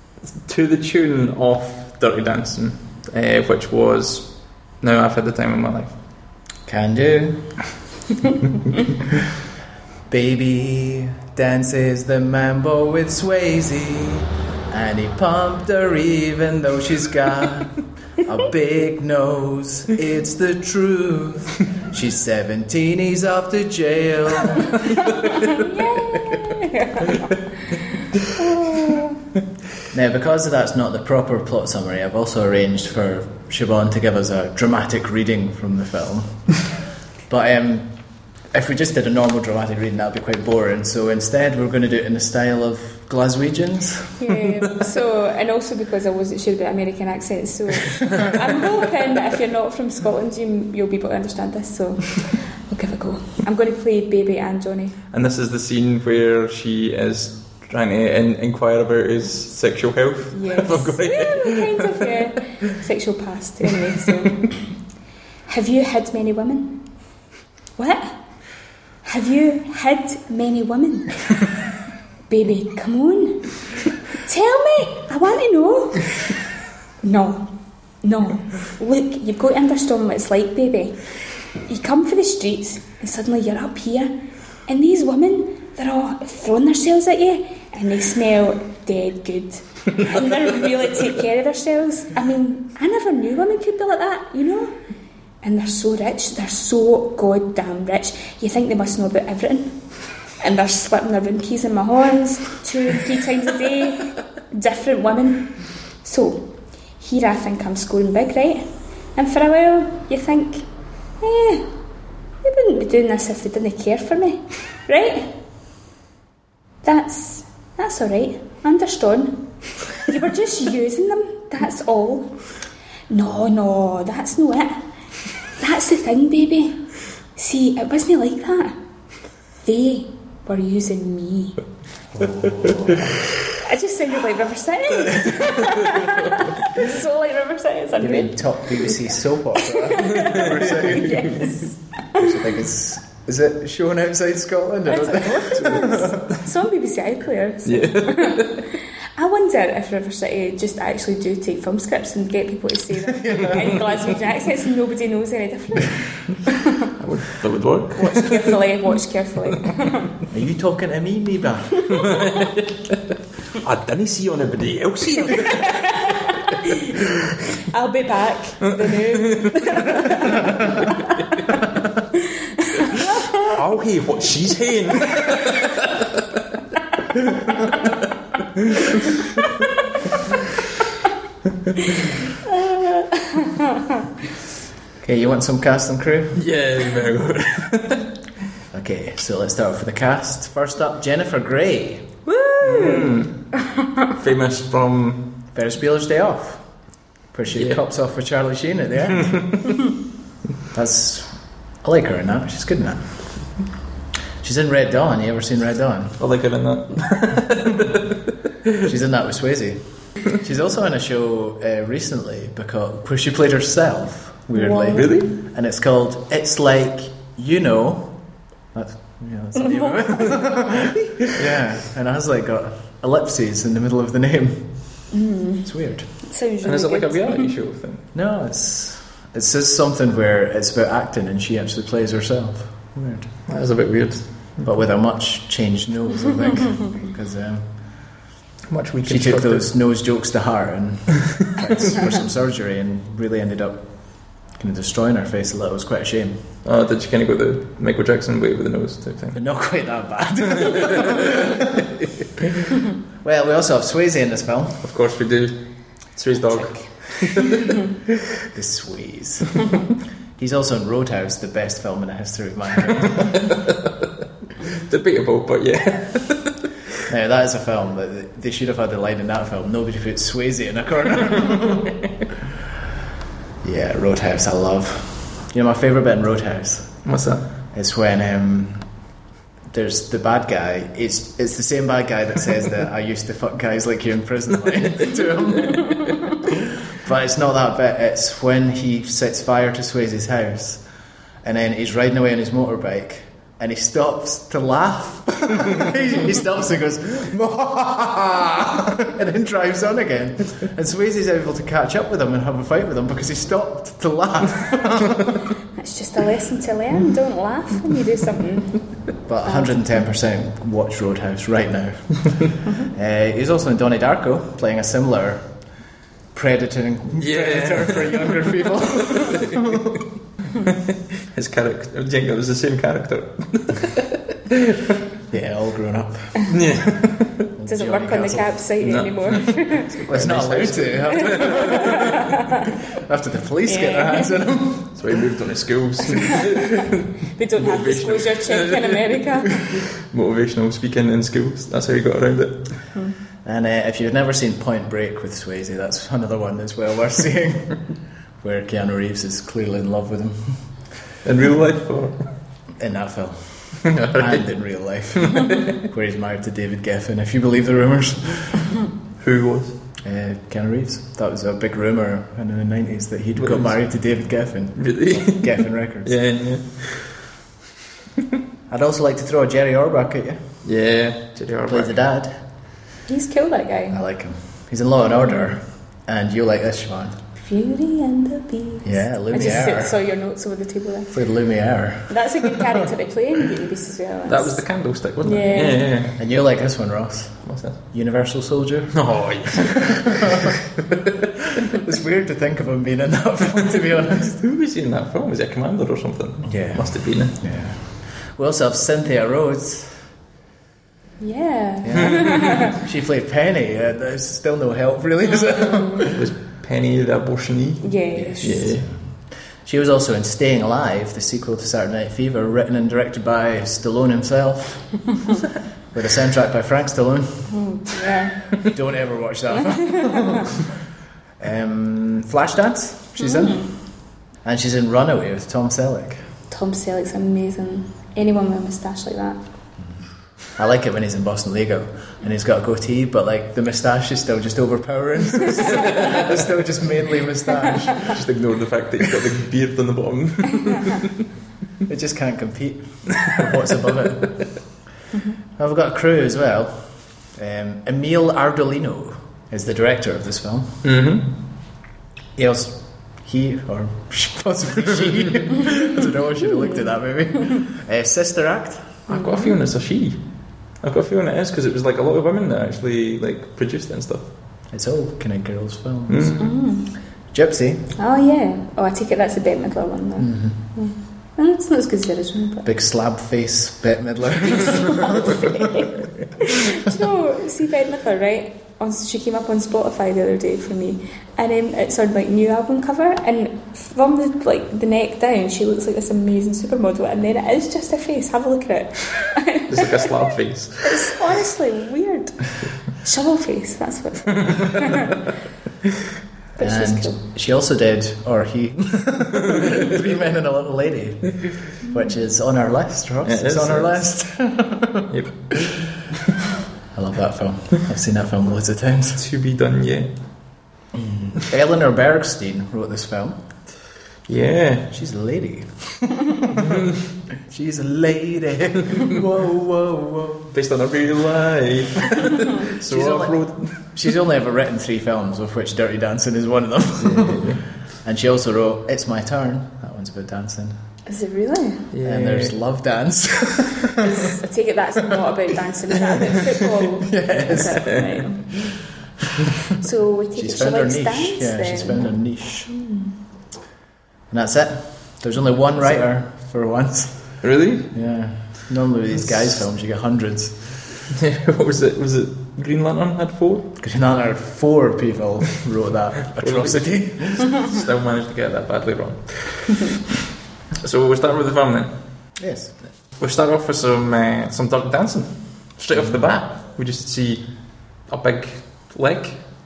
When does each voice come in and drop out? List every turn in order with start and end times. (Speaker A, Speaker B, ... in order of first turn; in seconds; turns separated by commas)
Speaker A: 0.4-5.9, Speaker B: 6.7-7.6, Speaker B: 10.1-24.8, Speaker C: 24.9-29.2, Speaker B: 29.9-36.6, Speaker B: 37.3-37.9, Speaker B: 38.5-44.1, Speaker C: 44.2-55.0, Speaker A: 55.1-62.1, Speaker C: 60.3-64.7, Speaker A: 63.6-64.2, Speaker C: 65.5-66.8, Speaker C: 67.8-68.2, Speaker C: 69.0-71.6, Speaker C: 72.3-76.4, Speaker C: 77.0-77.5, Speaker C: 78.0-81.0, Speaker C: 81.7-84.1, Speaker C: 84.7-94.7, Speaker C: 95.4-99.8, Speaker C: 100.4-108.6, Speaker C: 109.2-110.7, Speaker C: 111.2-111.7, Speaker C: 112.4-115.3, Speaker C: 116.8-122.3, Speaker C: 123.1-124.8, Speaker C: 125.6-128.8, Speaker C: 129.6-131.6, Speaker B: 132.1-133.1, Speaker C: 133.4-142.3, Speaker B: 138.0-141.4, Speaker A: 140.4-141.3, Speaker B: 142.2-146.3, Speaker C: 144.9-156.9, Speaker A: 147.7-148.7, Speaker B: 153.2-153.7, Speaker A: 157.0-158.6, Speaker C: 157.9-160.1, Speaker B: 160.3-162.0, Speaker C: 161.9-162.5, Speaker A: 161.9-167.4, Speaker C: 165.6-167.0, Speaker C: 167.6-171.7, Speaker A: 168.7-170.1, Speaker C: 172.2-173.6, Speaker A: 172.9-176.6, Speaker A: 177.1-179.1, Speaker A: 181.7-182.1, Speaker C: 181.8-184.0, Speaker B: 185.0-186.4, Speaker A: 186.3-188.1, Speaker B: 188.7-192.1, Speaker C: 192.3-193.1, Speaker A: 192.6-193.5, Speaker A: 194.2-195.3, Speaker B: 195.5-196.7, Speaker B: 197.3-199.5, Speaker A: 197.5-197.8, Speaker B: 200.7-203.3, Speaker B: 204.4-206.2, Speaker A: 206.2-208.8, Speaker B: 208.8-218.2, Speaker C: 214.5-215.3, Speaker A: 214.9-215.3, Speaker B: 218.7-225.0, Speaker C: 219.6-220.5, Speaker C: 225.1-225.7, Speaker B: 225.6-226.1, Speaker C: 226.2-227.5, Speaker A: 226.6-228.1, Speaker B: 228.1-233.3, Speaker A: 233.5-234.5, Speaker B: 234.6-237.7, Speaker A: 238.7-239.7, Speaker B: 239.0-246.4, Speaker A: 246.6-249.4, Speaker B: 249.3-252.1, Speaker A: 250.8-251.2, Speaker B: 253.2-254.8, Speaker A: 254.8-255.6, Speaker A: 256.1-258.1, Speaker C: 256.4-257.7, Speaker B: 258.5-259.6, Speaker B: 260.4-263.4, Speaker A: 263.1-264.1, Speaker A: 264.6-266.7, Speaker B: 267.1-271.9, Speaker B: 273.6-277.0, Speaker A: 277.0-277.4, Speaker B: 277.7-278.9, Speaker B: 279.7-286.2, Speaker B: 286.9-290.9, Speaker B: 291.4-305.4, Speaker C: 305.8-309.7, Speaker B: 309.3-315.4, Speaker B: 316.3-320.1, Speaker A: 317.2-318.5, Speaker A: 319.0-319.9, Speaker A: 320.6-325.0, Speaker B: 325.3-326.5, Speaker A: 326.5-327.4, Speaker B: 327.6-328.5, Speaker C: 327.7-330.0, Speaker A: 328.8-332.2, Speaker B: 330.1-332.3, Speaker C: 331.1-332.7, Speaker B: 332.9-335.0, Speaker C: 333.6-334.3, Speaker A: 335.0-342.8, Speaker C: 336.2-336.5, Speaker C: 337.3-339.7, Speaker B: 343.4-347.8, Speaker B: 348.4-350.6, Speaker A: 351.2-352.2, Speaker B: 352.8-358.8, Speaker A: 353.8-354.4, Speaker A: 355.1-355.8, Speaker A: 359.2-359.8, Speaker B: 360.0-366.1, Speaker A: 363.4-363.7, Speaker A: 364.8-367.2, Speaker B: 368.7-370.4, Speaker A: 370.6-371.9, Speaker B: 371.7-372.4, Speaker C: 373.1-374.0, Speaker B: 373.9-377.2, Speaker C: 377.4-381.2, Speaker B: 378.8-379.9, Speaker B: 381.1-382.7, Speaker C: 382.1-385.9, Speaker A: 384.3-386.2, Speaker B: 386.1-390.5, Speaker A: 387.4-387.8, Speaker A: 388.9-390.2, Speaker B: 391.5-394.4, Speaker A: 394.4-397.4, Speaker B: 396.4-400.0, Speaker C: 401.2-402.7, Speaker B: 401.8-406.2, Speaker A: 401.9-402.4, Speaker C: 405.6-406.0, Speaker A: 406.1-408.9, Speaker C: 407.8-408.7, Speaker B: 408.1-409.1, Speaker B: 409.6-415.0, Speaker B: 415.9-417.5, Speaker C: 417.5-418.6, Speaker B: 418.6-420.6, Speaker C: 419.5-420.4, Speaker B: 421.4-423.7, Speaker C: 423.2-423.7, Speaker B: 424.4-426.2, Speaker C: 426.5-429.4, Speaker B: 429.8-438.1, Speaker A: 438.0-441.1, Speaker B: 441.9-444.5, Speaker B: 445.6-450.9, Speaker A: 450.8-451.3, Speaker B: 452.4-459.0, Speaker C: 456.5-456.9, Speaker A: 459.1-460.2, Speaker C: 459.1-459.6, Speaker A: 460.8-464.3, Speaker B: 464.7-466.4, Speaker A: 466.1-466.6, Speaker C: 466.4-466.9, Speaker B: 467.3-467.9, Speaker C: 468.0-472.6, Speaker B: 470.2-470.6, Speaker B: 472.6-475.8, Speaker C: 474.5-495.2, Speaker A: 489.7-491.2, Speaker B: 496.6-505.8, Speaker C: 496.6-497.2, Speaker A: 503.2-504.0, Speaker A: 505.1-505.4, Speaker B: 506.9-509.2, Speaker A: 509.2-510.1, Speaker B: 510.9-513.4, Speaker A: 514.3-514.9, Speaker B: 514.9-520.5, Speaker A: 516.6-517.0, Speaker A: 520.5-523.9, Speaker B: 522.8-530.8, Speaker A: 527.0-527.6, Speaker C: 531.1-531.9, Speaker A: 531.9-532.5, Speaker B: 532.0-534.1, Speaker C: 534.0-538.6, Speaker B: 537.0-538.0, Speaker C: 539.7-543.1, Speaker B: 540.4-542.7, Speaker B: 544.3-550.7, Speaker A: 547.4-547.9, Speaker A: 551.1-553.7, Speaker B: 553.8-557.5, Speaker A: 556.4-560.1, Speaker A: 560.8-561.9, Speaker B: 562.4-562.7, Speaker A: 563.2-567.5, Speaker A: 568.0-569.4